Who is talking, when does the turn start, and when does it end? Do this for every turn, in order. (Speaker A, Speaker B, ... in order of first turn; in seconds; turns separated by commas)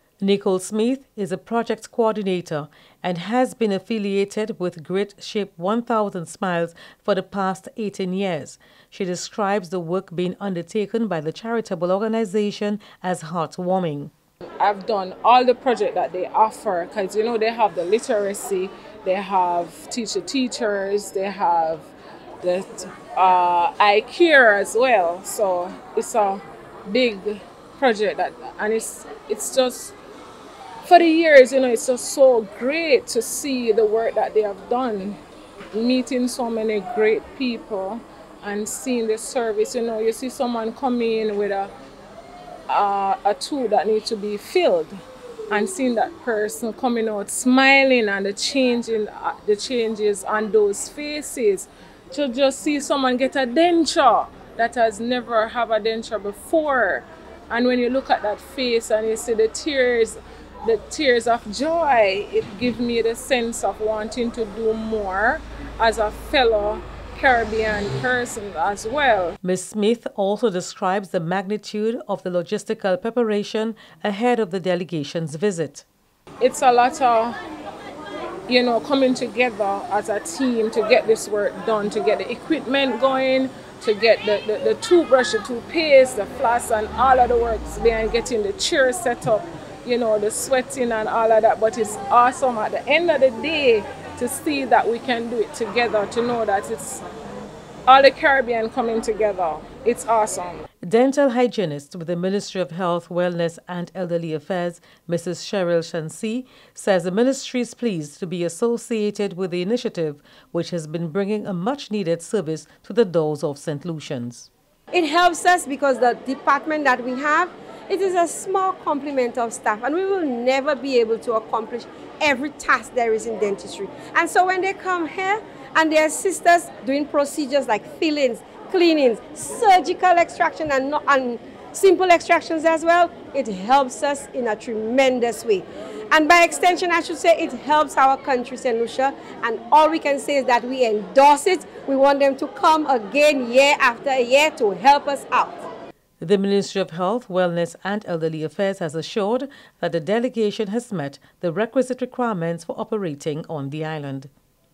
Speaker A: 0.2-14.1, Speaker B: 14.6-21.9, Speaker B: 22.4-30.0, Speaker B: 30.8-35.2, Speaker B: 35.7-41.7, Speaker B: 42.7-45.0, Speaker B: 45.5-69.4, Speaker A: 69.4-75.9, Speaker B: 76.4-77.4, Speaker B: 78.5-97.0, Speaker B: 97.9-100.6, Speaker A: 100.8-114.5, Speaker C: 114.9-145.7, Speaker A: 146.2-154.3